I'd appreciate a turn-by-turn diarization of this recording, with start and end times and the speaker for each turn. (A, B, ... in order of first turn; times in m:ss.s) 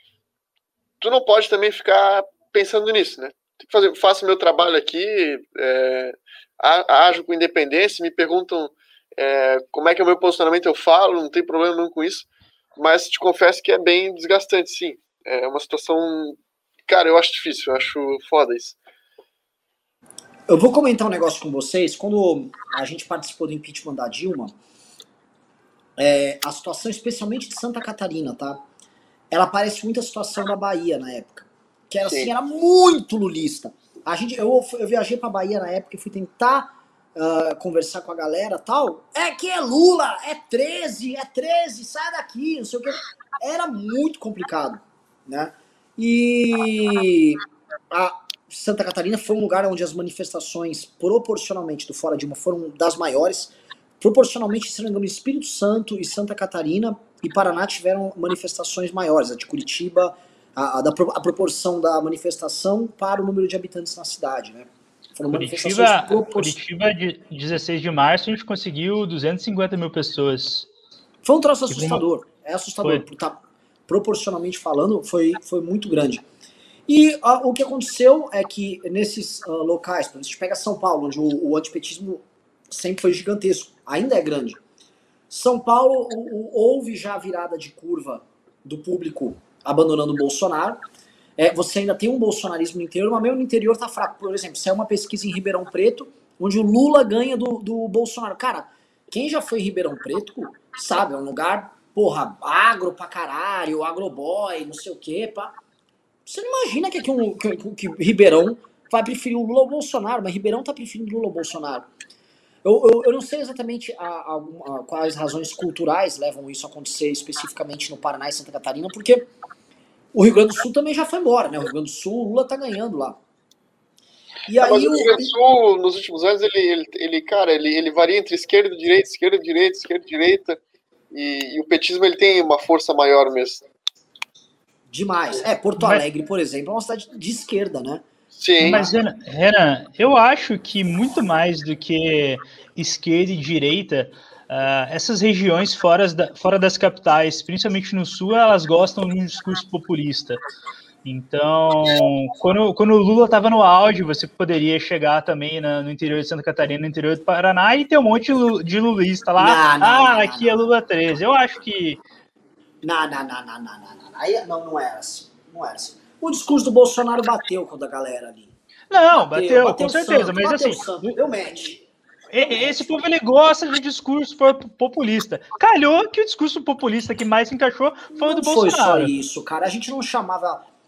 0:01.0-0:18.8 A
0:20.5-0:24.6 B
0:26.0-0:28.6 B
0:29.3-1:06.6 B
0:32.0-0:32.3 A
1:05.3-1:10.7 C
1:11.2-1:16.2 B
1:11.7-1:12.0 C
1:16.9-1:24.6 B
1:25.3-1:30.8 B
1:31.4-1:45.6 B
1:46.3-1:51.9 B
1:52.6-1:59.3 B
2:00.1-2:03.2 B
2:04.5-2:05.3 B
2:04.6-2:10.6 A
2:11.1-2:13.6 A
2:14.9-2:18.0 B
2:15.8-2:16.0 C
2:18.4-2:18.8 A
2:18.6-2:19.0 B
2:18.6-2:30.4 C
2:31.0-2:42.0 C
2:39.4-2:40.5 B
2:42.8-2:48.5 B
2:48.9-2:51.1 C
2:49.1-2:51.8 B
2:52.3-2:59.1 C
2:52.4-2:52.8 B
2:58.1-3:00.6 B